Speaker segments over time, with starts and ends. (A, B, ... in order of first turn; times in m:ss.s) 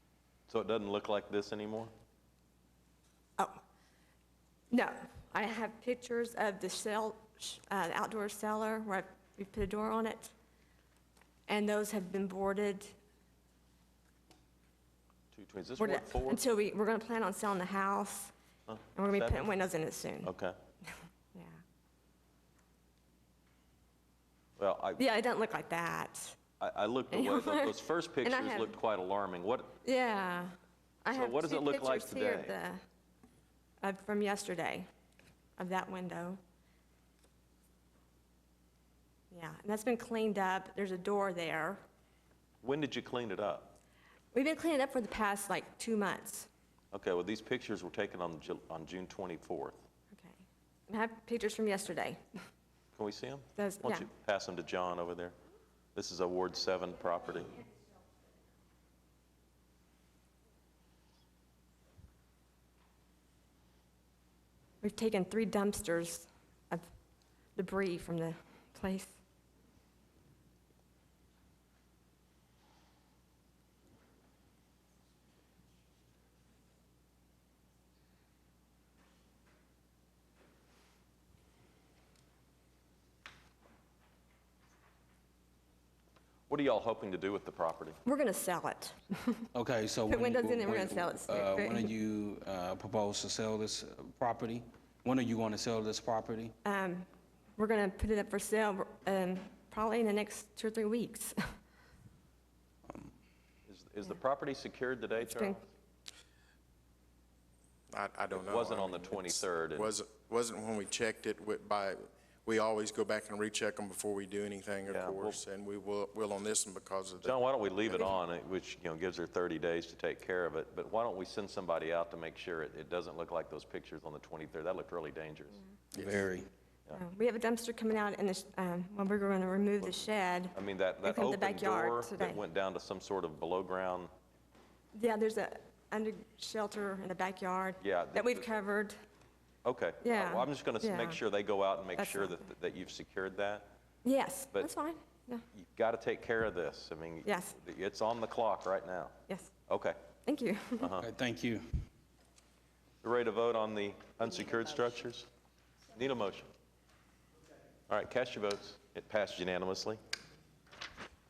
0:00.5-0:01.9 A
0:04.7-0:10.3 B
0:11.5-0:13.0 B
0:15.3-0:16.4 A
0:15.8-0:18.3 B
0:18.7-0:19.5 A
0:18.9-0:20.3 B
0:20.2-0:20.6 A
0:20.8-0:21.6 B
0:24.6-0:25.0 A
0:25.0-0:26.4 B
0:26.6-0:29.7 A
0:27.1-0:28.8 B
0:29.8-0:32.8 B
0:31.1-0:32.5 A
0:33.8-0:34.8 B
0:35.6-0:36.4 B
0:39.3-0:41.8 B
0:42.6-0:43.7 A
0:44.3-0:46.5 B
0:46.9-0:49.8 A
0:50.1-0:52.2 B
0:53.0-0:55.3 A
0:53.5-0:54.1 B
0:56.0-0:57.6 A
1:04.8-1:06.8 B
1:07.6-1:09.2 B
1:26.5-1:28.0 A
1:28.0-1:29.5 B
1:29.5-1:36.5 C
1:30.0-1:31.9 B
1:36.6-1:41.4 B
1:43.7-1:45.6 A
1:45.2-1:45.6 B
1:47.9-1:58.1 D
1:48.3-1:49.9 A
1:54.9-1:55.4 A
1:57.2-2:05.6 A
2:05.9-2:06.5 C
2:06.0-2:06.2 D
2:06.9-2:12.4 B
2:10.5-2:14.1 A
2:14.9-2:18.9 B
2:17.8-2:18.4 A
2:19.6-2:23.7 A
2:20.0-2:21.2 B
2:21.9-2:22.5 B
2:24.0-2:25.4 B
2:25.5-2:29.1 A
2:27.2-2:27.5 B
2:29.7-2:30.0 A
2:30.2-2:30.9 B
2:30.8-2:31.1 A
2:31.0-2:31.7 C
2:33.0-2:35.3 A
2:35.9-2:36.5 A
2:37.9-2:40.0 A